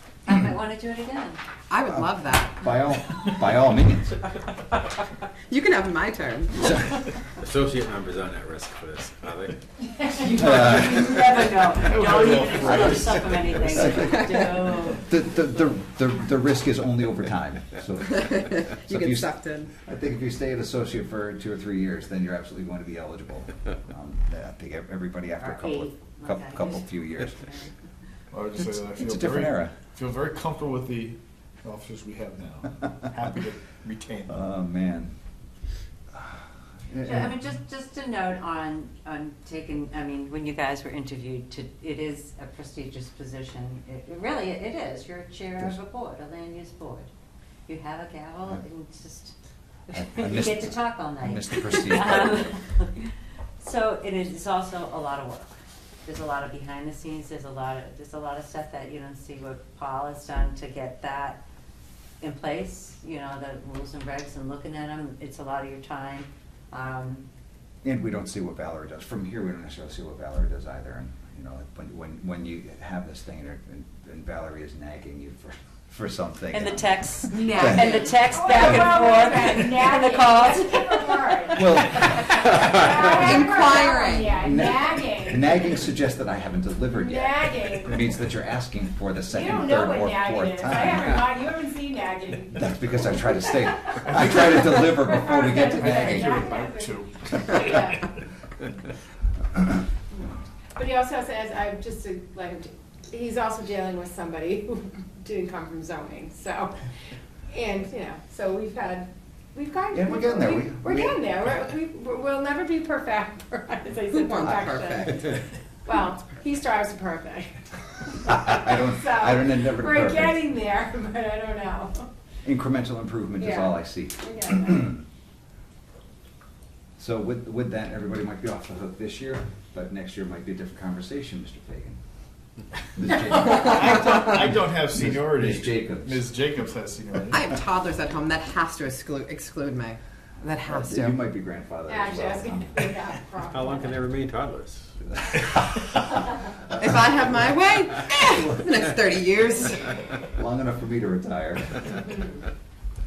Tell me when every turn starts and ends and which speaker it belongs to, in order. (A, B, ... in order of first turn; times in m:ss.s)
0:00.2-0:01.4 A
0:01.7-0:02.7 B
0:02.6-0:04.2 C
0:05.5-0:06.9 B
0:07.4-0:09.6 D
0:10.1-0:15.0 A
0:10.4-0:11.1 C
0:10.4-0:11.0 E
0:11.7-0:13.8 E
0:12.7-0:27.5 C
0:18.2-0:19.7 B
0:25.4-0:27.7 A
0:28.3-0:34.4 E
0:28.7-0:29.7 C
0:34.3-0:35.1 C
0:36.9-0:37.4 C
0:37.0-0:47.1 A
0:47.7-0:49.4 A
0:49.9-1:01.4 A
0:49.9-0:52.4 C
1:02.2-1:07.3 A
1:07.8-1:19.0 C
1:16.5-1:22.4 A
1:17.3-1:18.1 B
1:17.8-1:21.8 F
1:21.5-1:23.6 C
1:22.4-1:25.7 F
1:23.1-1:24.4 B
1:24.3-1:31.3 C
1:26.9-1:28.0 F
1:29.3-1:32.6 F
1:32.5-1:36.4 C
1:33.8-1:34.2 F
1:34.8-1:37.0 F
1:35.7-1:37.9 E
1:37.5-1:38.0 F
1:40.8-1:46.8 F
1:47.5-2:02.1 F
1:49.9-1:51.3 C
1:54.1-1:55.4 B
1:58.2-2:00.4 C
2:02.4-2:05.0 C
2:03.4-2:03.7 F
2:04.2-2:04.7 F
2:07.0-2:12.0 C
2:13.0-2:14.2 C
2:13.4-2:17.5 E
2:14.9-2:16.3 C
2:17.3-2:21.2 B
2:20.7-2:22.9 C
2:21.9-2:24.1 F
2:23.4-2:25.0 D
2:26.7-2:30.0 B
2:30.2-2:32.0 C